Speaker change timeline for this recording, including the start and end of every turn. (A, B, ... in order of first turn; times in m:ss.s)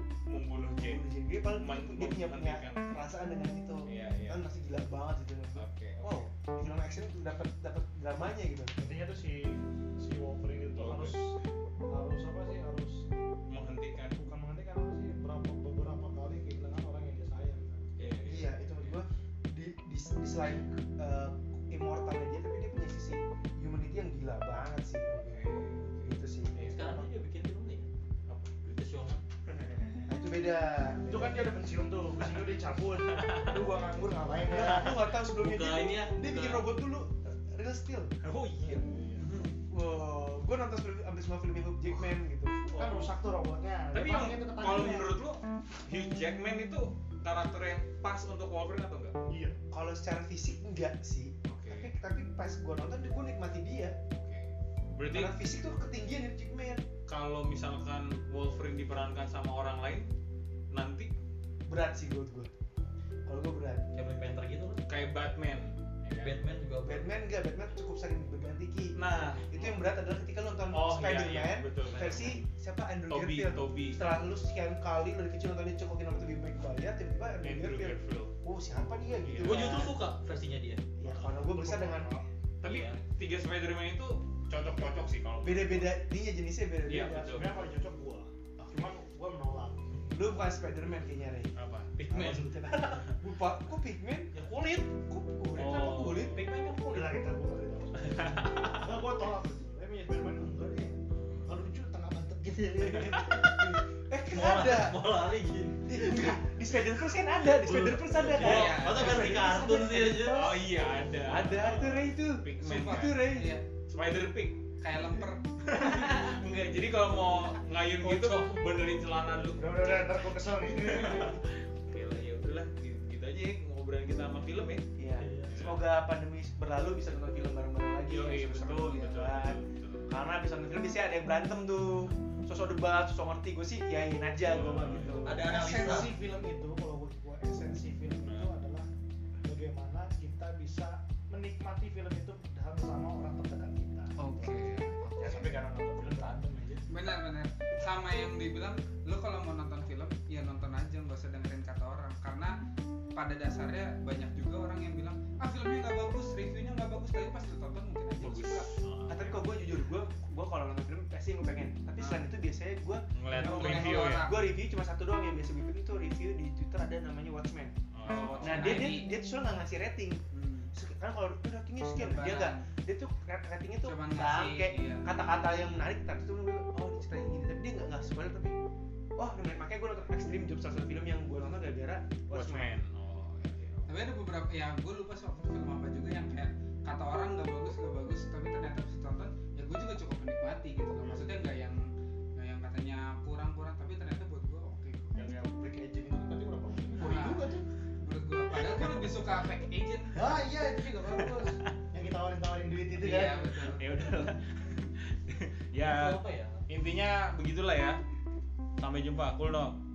0:00.3-0:01.0 A
0:00.8-0:08.7 B
0:01.5-0:03.1 A
0:03.8-0:04.4 A
0:05.5-0:06.3 A
0:08.8-0:11.4 C
0:10.8-0:11.2 A
0:11.9-0:13.0 C
0:13.5-0:14.2 A
0:14.2-0:17.8 C
0:18.0-0:19.0 A
0:18.2-0:27.1 B
0:25.2-0:26.8 A
0:26.6-0:27.9 D
0:28.3-0:28.8 A
0:28.7-0:29.2 D
0:29.4-0:30.1 A
0:30.1-0:31.6 B
0:31.1-0:35.0 C
0:32.2-0:33.5 A
0:34.4-0:38.1 B
0:34.6-0:36.2 D
0:36.2-0:36.7 A
0:38.2-0:39.5 A
0:38.6-0:39.2 C
0:39.6-0:42.7 B
0:42.7-0:43.1 A
0:42.7-0:45.1 C
0:43.9-0:49.2 A
0:49.3-0:49.6 C
0:49.7-0:53.9 B
0:51.5-0:51.9 A
0:54.1-0:55.4 A
0:55.0-0:56.8 B
0:57.1-1:00.1 A
1:00.7-1:01.1 A
1:01.7-1:02.5 B
1:03.3-1:03.9 B
1:03.9-1:04.8 D
1:04.9-1:06.4 A
1:06.1-1:07.1 D
1:06.8-1:09.0 B
1:09.0-1:09.8 A
1:09.5-1:20.0 B
1:10.7-1:12.4 D
1:10.7-1:12.4 A
1:13.1-1:14.0 A
1:17.4-1:18.3 A
1:19.2-1:19.9 A
1:19.4-1:20.8 D
1:21.0-1:22.1 B
1:21.1-1:22.2 C
1:22.6-1:26.0 A
1:22.6-1:23.0 D
1:25.4-1:27.3 B
1:26.8-1:27.6 A
1:27.0-1:30.0 C
1:30.1-1:31.5 B
1:31.5-1:32.0 A
1:32.0-1:33.1 D
1:32.1-1:36.6 B
1:35.5-1:36.5 A
1:36.4-1:37.3 D
1:36.8-1:43.8 C
1:38.0-1:39.0 A
1:41.1-1:41.6 A
1:43.3-1:45.0 B
1:44.3-1:46.4 D
1:45.8-1:50.6 B
1:47.5-1:50.6 D
1:48.3-1:49.2 E
1:48.4-1:49.4 A
1:50.1-1:53.3 A
1:51.2-1:53.5 B
1:52.6-1:53.6 E
1:53.9-2:04.8 A
1:54.8-1:55.4 E
1:59.6-2:01.4 C
2:05.0-2:15.4 B
2:05.2-2:05.5 D
2:05.5-2:05.8 A
2:08.0-2:10.1 A
2:14.4-2:15.7 A
2:15.2-2:16.1 D
2:15.4-2:18.9 C
2:18.2-2:18.5 A
2:19.4-2:26.8 C
2:24.2-2:25.5 E
2:26.9-2:32.6 E
2:33.1-2:38.7 E
2:38.2-2:39.4 A
2:39.1-2:47.8 B
2:42.0-2:42.2 E
2:43.1-2:44.3 A
2:43.3-2:44.4 E
2:47.9-2:48.8 A
2:48.0-2:49.1 E
2:48.4-2:50.2 B
2:50.3-2:50.7 E
2:50.7-2:58.6 B
2:51.9-2:52.7 E
2:53.8-2:55.7 E
2:59.2-3:02.7 B
3:02.3-3:03.8 A
3:03.9-3:15.1 E
3:15.1-3:17.6 C
3:17.0-3:17.5 E
3:18.0-3:20.4 E
3:20.1-3:23.7 C
3:21.0-3:21.6 A
3:23.0-3:23.8 E
3:23.7-3:28.0 A
3:25.8-3:26.6 D
3:28.8-3:29.8 A